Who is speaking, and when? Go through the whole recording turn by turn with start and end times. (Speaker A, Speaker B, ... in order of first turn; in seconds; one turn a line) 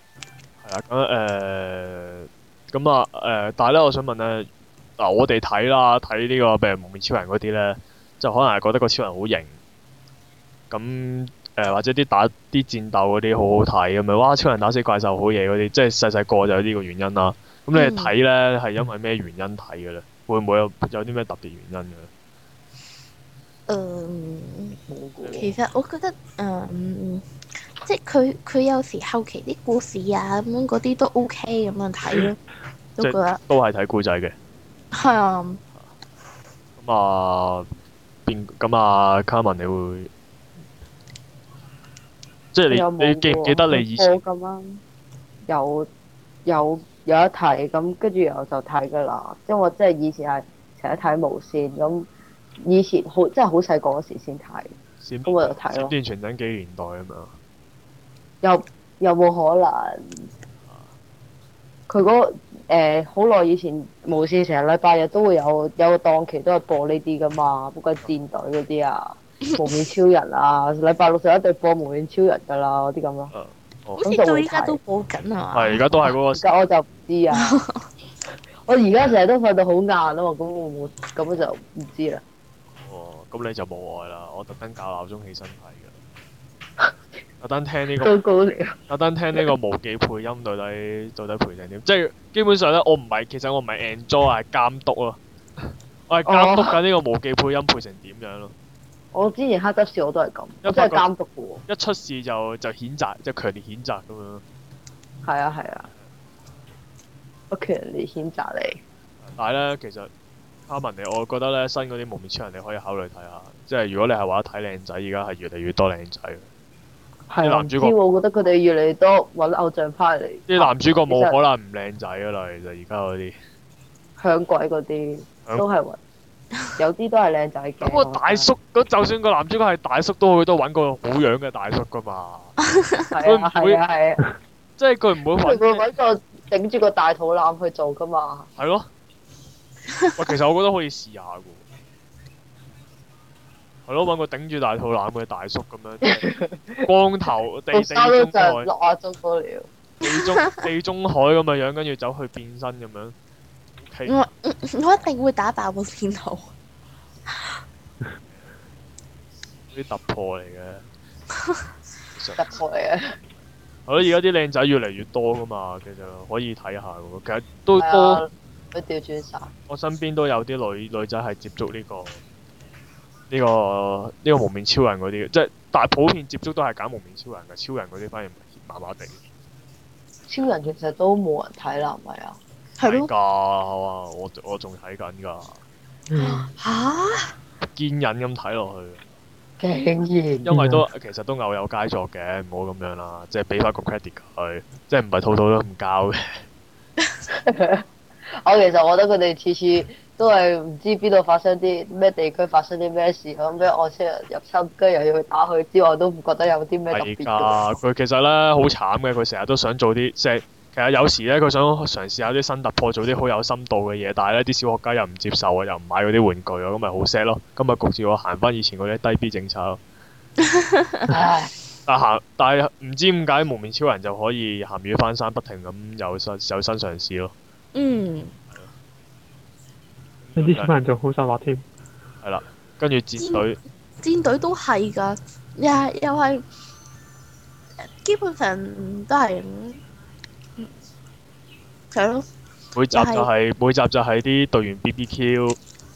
Speaker A: 0.6-9.6
Speaker A: 10.7-22.1
Speaker B: 17.7-18.1
Speaker B: 23.7-24.8
Speaker C: 24.9-25.5
Speaker B: 25.4-27.2
Speaker B: 27.8-32.4
Speaker B: 33.0-33.4
Speaker A: 33.0-34.3
Speaker B: 34.9-35.6
Speaker A: 36.8-37.7
Speaker A: 38.2-40.1
Speaker A: 42.5-44.2
Speaker C: 42.7-44.8
Speaker C: 45.5-45.9
Speaker C: 46.5-52.1
Speaker C: 52.6-54.7
Speaker A: 55.0-57.3
Speaker C: 55.2-55.9
Speaker C: 58.4-60.2
Speaker C: 61.9-73.3
Speaker A: 73.3-74.0
Speaker B: 74.0-76.1
Speaker C: 74.0-74.8
Speaker A: 75.5-76.4
Speaker C: 76.3-77.6
Speaker B: 77.3-77.8
Speaker C: 78.7-82.2
Speaker A: 82.8-86.0
Speaker A: 87.4-88.1
Speaker C: 88.0-88.8
Speaker A: 88.9-98.5
Speaker C: 96.2-96.8
Speaker C: 99.1-101.6
Speaker A: 100.6-101.0
Speaker A: 101.7-104.4
Speaker C: 105.2-105.9
Speaker C: 107.5-108.8
Speaker A: 109.3-110.1
Speaker A: 110.7-116.5
Speaker C: 117.3-121.4
Speaker A: 117.4-117.9
Speaker A: 120.5-123.3
Speaker C: 124.2-126.0
Speaker C: 126.8-128.5
Speaker A: 127.8-132.6
Speaker C: 133.1-134.2
Speaker A: 133.2-133.8
Speaker A: 134.8-135.9
Speaker C: 135.4-138.5
Speaker A: 138.6-138.9
Speaker B: 140.0-140.2
Speaker A: 140.2-141.6
Speaker A: 143.8-146.2
Speaker C: 146.0-146.9
Speaker A: 146.8-148.7
Speaker C: 147.7-149.7
Speaker B: 150.0-150.6
Speaker A: 150.0-153.1
Speaker A: 153.8-154.2
Speaker B: 154.1-156.5
Speaker A: 159.7-160.8
Speaker A: 162.1-162.5
Speaker C: 162.4-163.2
Speaker A: 163.9-168.2
Speaker C: 167.7-169.5
Speaker A: 169.7-172.2
Speaker A: 173.3-179.2
Speaker C: 180.3-182.4
Speaker B: 182.8-183.1
Speaker A: 182.8-185.6
Speaker D: 186.1-186.5
Speaker B: 186.2-187.3
Speaker A: 187.6-189.0
Speaker C: 189.6-190.5
Speaker A: 190.4-196.4
Speaker D: 190.5-190.8
Speaker C: 197.3-197.8
Speaker C: 198.4-207.6
Speaker A: 206.9-219.8
Speaker B: 220.6-221.1
Speaker C: 221.1-221.5
Speaker A: 221.9-227.3
Speaker B: 227.7-228.3
Speaker A: 230.2-230.7
Speaker D: 230.3-231.6
Speaker A: 232.2-233.6
Speaker B: 233.2-233.4
Speaker B: 234.0-236.4
Speaker B: 237.8-239.8
Speaker B: 241.9-242.2
Speaker A: 242.7-245.6
Speaker B: 242.9-243.3